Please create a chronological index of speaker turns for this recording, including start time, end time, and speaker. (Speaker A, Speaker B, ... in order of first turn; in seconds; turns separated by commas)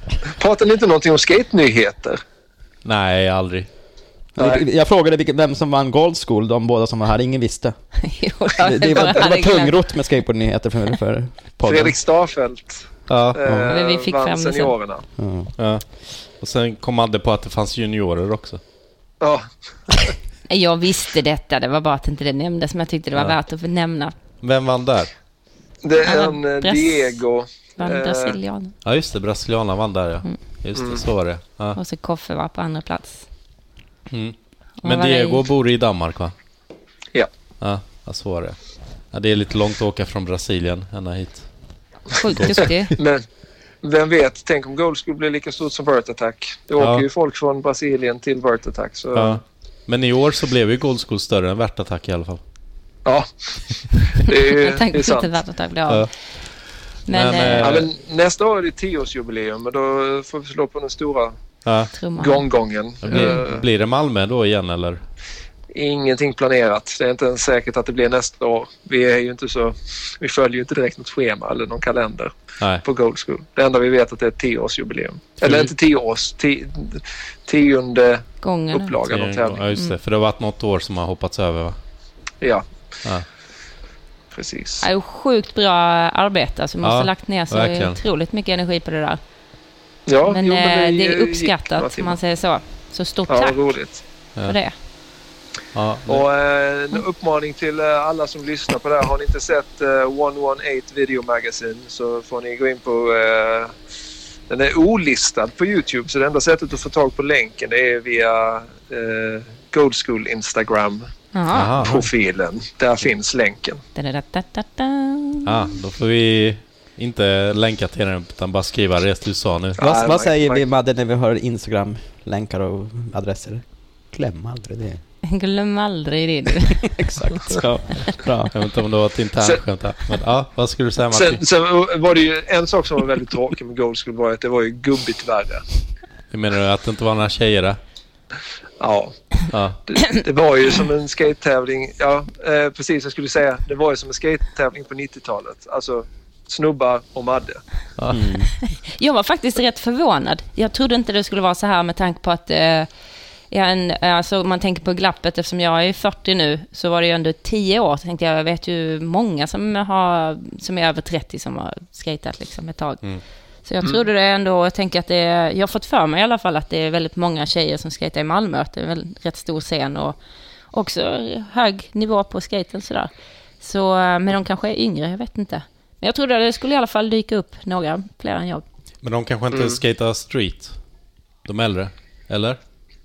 Speaker A: 0.4-2.2, Speaker B: 2.8-3.7, Speaker C: 4.4-7.8, Speaker A: 4.4-4.7, Speaker D: 8.0-9.8, Speaker C: 8.6-12.0, Speaker A: 11.7-15.1, Speaker B: 13.1-13.4, Speaker C: 13.4-13.7, Speaker D: 13.7-14.7, Speaker C: 15.2-15.5, Speaker B: 15.6-18.6, Speaker A: 19.2-20.1, Speaker D: 20.5-24.1, Speaker B: 24.4-25.1, Speaker A: 25.8-28.4, Speaker D: 26.0-27.2, Speaker D: 27.8-28.7, Speaker B: 28.8-31.8, Speaker A: 30.8-31.1, Speaker D: 31.8-33.2, Speaker B: 34.1-36.3, Speaker D: 34.8-35.4, Speaker B: 37.6-38.6, Speaker B: 39.1-41.5, Speaker D: 42.2-42.9, Speaker B: 42.3-42.9, Speaker A: 43.0-43.2, Speaker A: 43.8-49.4, Speaker B: 46.8-47.1, Speaker B: 49.1-52.4, Speaker A: 53.0-53.3, Speaker A: 54.2-55.4, Speaker D: 54.6-56.1, Speaker D: 57.1-57.7, Speaker B: 57.1-57.9, Speaker A: 57.6-61.4, Speaker B: 61.6-61.9, Speaker D: 61.9-62.4, Speaker A: 62.2-63.6, Speaker B: 63.0-65.0, Speaker D: 63.1-63.4, Speaker A: 65.7-72.3, Speaker A: 72.8-79.7, Speaker B: 75.4-75.7, Speaker D: 78.4-79.0, Speaker B: 79.1-81.8, Speaker A: 82.4-82.7, Speaker A: 84.3-84.8, Speaker D: 84.8-89.2, Speaker B: 86.8-88.0, Speaker A: 90.1-92.2, Speaker D: 90.3-93.6, Speaker A: 93.3-94.0, Speaker D: 94.4-94.8, Speaker B: 95.8-96.2, Speaker A: 96.1-103.8, Speaker A: 104.5-111.1, Speaker D: 111.3-111.7, Speaker B: 111.5-112.0, Speaker A: 111.8-113.8, Speaker D: 114.0-115.5, Speaker B: 115.5-119.8, Speaker A: 119.8-120.6, Speaker C: 119.8-125.0, Speaker D: 125.3-126.8, Speaker C: 126.9-128.5, Speaker B: 128.5-131.4, Speaker A: 131.1-135.6, Speaker B: 136.3-137.8, Speaker A: 138.8-139.2, Speaker B: 139.5-139.8, Speaker A: 139.9-147.6, Speaker B: 148.0-148.3, Speaker C: 148.1-148.5, Speaker D: 148.9-152.9, Speaker D: 153.5-163.0, Speaker D: 163.7-170.2, Speaker D: 170.7-173.1, Speaker D: 173.6-178.6, Speaker B: 179.0-180.8, Speaker B: 181.4-182.6